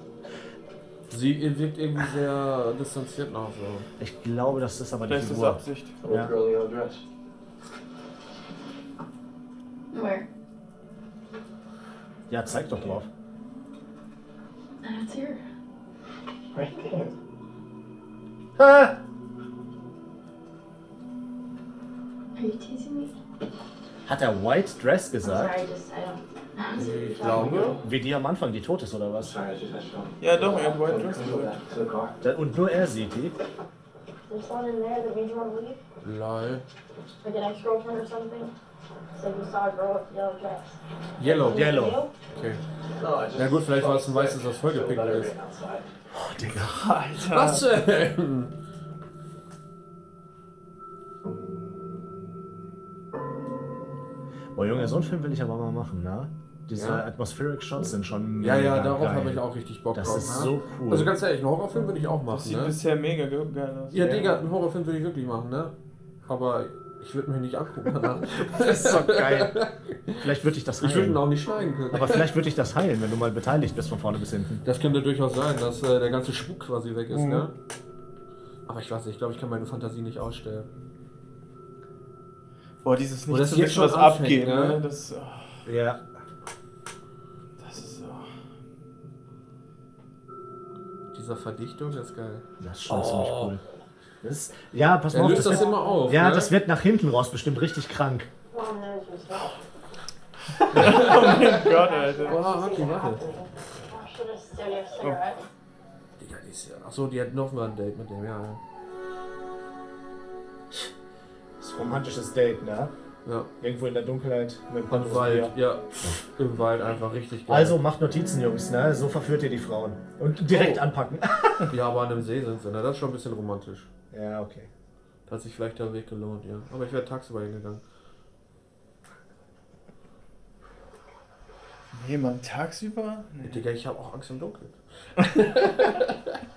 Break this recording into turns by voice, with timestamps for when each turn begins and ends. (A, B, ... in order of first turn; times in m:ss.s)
0:01.1-0:03.9 A
0:04.0-0:06.3 B
0:05.1-0:06.0 C
0:06.0-0:07.0 D
0:09.9-0:10.3 E
0:12.3-0:13.1 B
0:14.8-0:15.4 E
0:16.5-0:17.1 D
0:18.6-0:19.0 B
0:22.4-0:23.1 E
0:24.0-0:25.5 B
0:25.2-0:27.8 E
0:26.8-0:27.8 A
0:27.4-0:29.4 B
0:29.2-0:32.2 D
0:30.2-0:31.5 C
0:32.2-0:33.4 B
0:34.3-0:35.8 E
0:36.0-0:36.6 A
0:37.2-0:38.5 E
0:39.1-0:42.1 E
0:41.2-0:42.6 A
0:41.4-0:42.0 B
0:43.0-0:45.9 D
0:43.4-0:45.3 A
0:46.1-0:46.9 B
0:46.7-0:47.6 C
0:47.2-0:48.5 A
0:54.5-1:01.1 B
0:56.8-0:57.0 A
0:58.4-1:02.8 A
1:02.2-1:04.4 C
1:03.9-1:05.7 A
1:06.2-1:10.2 A
1:08.5-1:09.6 B
1:10.2-1:11.2 B
1:10.8-1:12.3 A
1:11.9-1:14.6 B
1:14.6-1:17.5 A
1:17.1-1:17.5 C
1:18.7-1:20.7 A
1:22.8-1:25.6 C
1:23.3-1:24.8 A
1:25.6-1:26.0 B
1:27.6-1:28.3 C
1:31.1-1:33.5 A
1:32.6-1:33.6 B
1:34.2-1:38.3 B
1:35.1-1:36.5 A
1:38.5-1:39.6 E
1:40.7-1:41.7 A
1:40.7-1:42.4 C
1:41.0-1:45.4 E
1:42.2-1:43.2 A
1:46.2-1:48.6 A
1:51.6-1:52.9 B
1:53.6-1:55.5 B
1:54.9-1:57.8 A
1:57.5-2:01.7 B
2:00.5-2:00.8 A
2:01.7-2:03.9 A
2:04.1-2:04.7 B
2:05.3-2:07.8 A
2:11.9-2:13.6 C
2:13.4-2:16.4 A